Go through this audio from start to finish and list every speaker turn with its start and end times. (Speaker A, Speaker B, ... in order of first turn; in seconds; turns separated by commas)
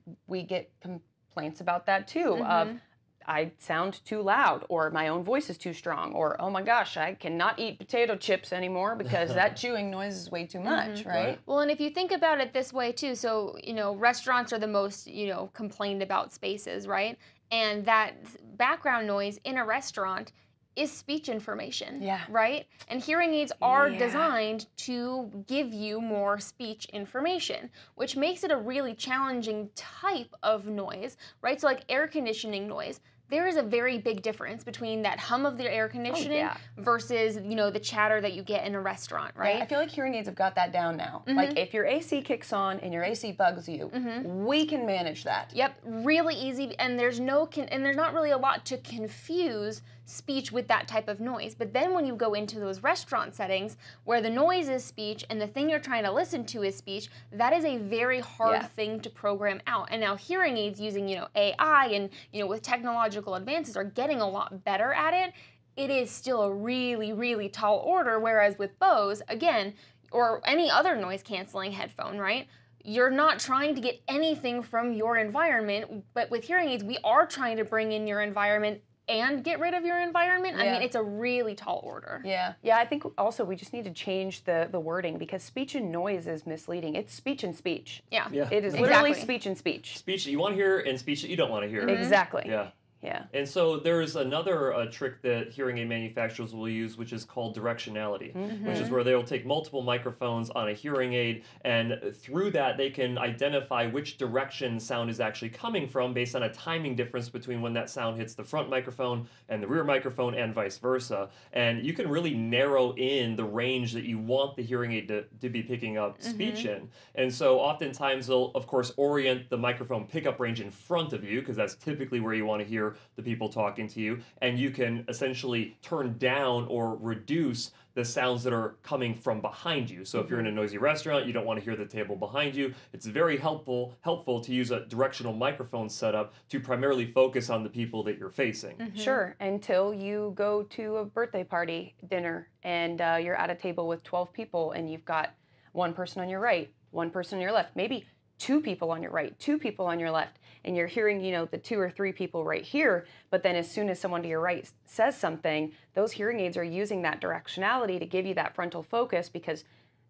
Speaker A: 0.2-11.4, Speaker B: 2.3-2.8, Speaker B: 10.6-39.7, Speaker C: 11.1-11.4, Speaker A: 22.0-22.3, Speaker A: 23.6-24.3, Speaker A: 36.1-36.6, Speaker A: 39.4-45.5, Speaker B: 41.2-41.6, Speaker B: 43.9-44.3, Speaker B: 45.5-82.2, Speaker A: 58.4-58.7, Speaker A: 80.5-80.9, Speaker A: 82.2-90.0, Speaker B: 88.1-89.3, Speaker C: 88.3-89.1, Speaker C: 89.9-92.7, Speaker B: 91.8-92.2, Speaker A: 91.8-93.3, Speaker C: 93.3-138.8, Speaker A: 98.3-99.0, Speaker B: 98.5-99.0, Speaker B: 116.2-116.7, Speaker A: 130.2-130.5, Speaker B: 138.8-139.2, Speaker A: 138.9-159.6